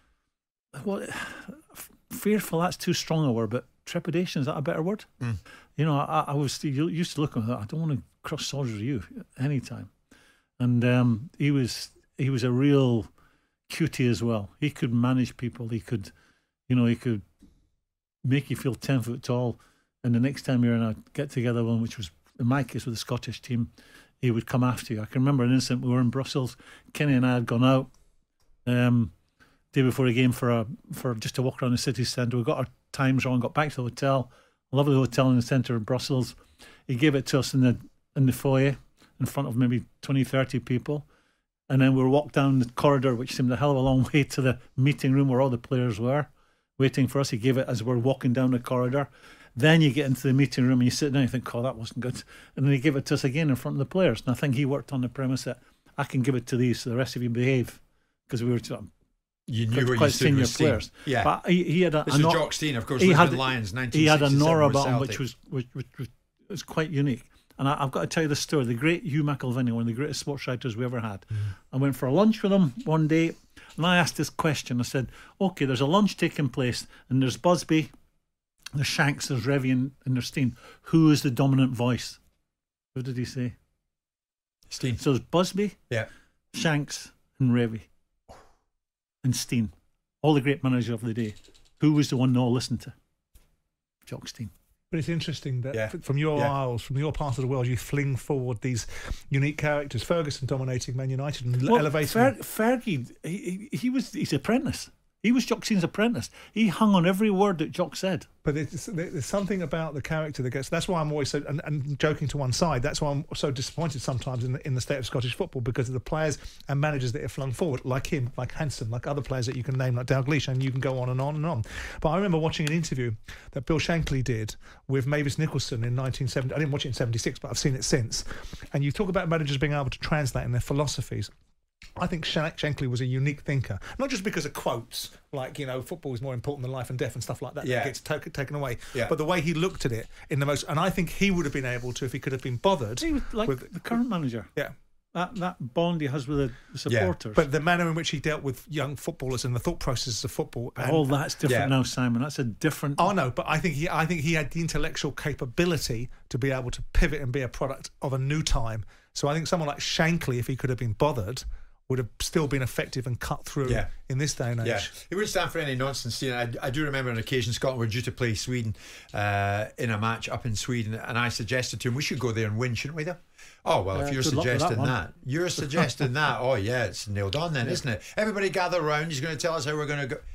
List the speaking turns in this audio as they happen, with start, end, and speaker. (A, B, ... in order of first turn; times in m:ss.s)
0:00.8-0:05.1 A
0:05.8-0:09.9 A
0:10.6-0:13.1 A
0:13.7-0:16.1 A
0:16.7-0:17.2 A
0:18.2-0:23.7 A
0:24.2-0:27.9 A
0:28.7-0:29.1 A
0:29.7-0:41.1 A
0:41.7-0:58.9 A
0:59.5-1:01.3 B
0:59.7-1:17.9 A
1:02.0-1:05.2 B
1:18.8-1:22.2 A
1:23.0-1:23.6 A
1:24.7-1:25.0 B
1:25.0-1:25.8 A
1:26.5-1:27.9 A
1:29.2-1:29.7 A
1:30.2-1:32.9 A
1:34.1-1:34.5 A
1:34.9-1:42.3 C
1:35.7-1:36.6 B
1:41.7-1:48.3 A
1:48.4-2:11.3 C
2:12.0-2:24.0 C
2:17.6-2:18.0 B
2:23.0-2:24.5 A
2:25.1-2:27.4 A
2:26.9-2:27.2 B
2:27.4-2:31.1 C
2:30.8-2:33.1 A
2:31.4-2:31.7 B
2:33.0-2:44.9 C
2:44.6-3:00.2 B
2:53.9-2:55.0 A
2:55.6-2:56.0 A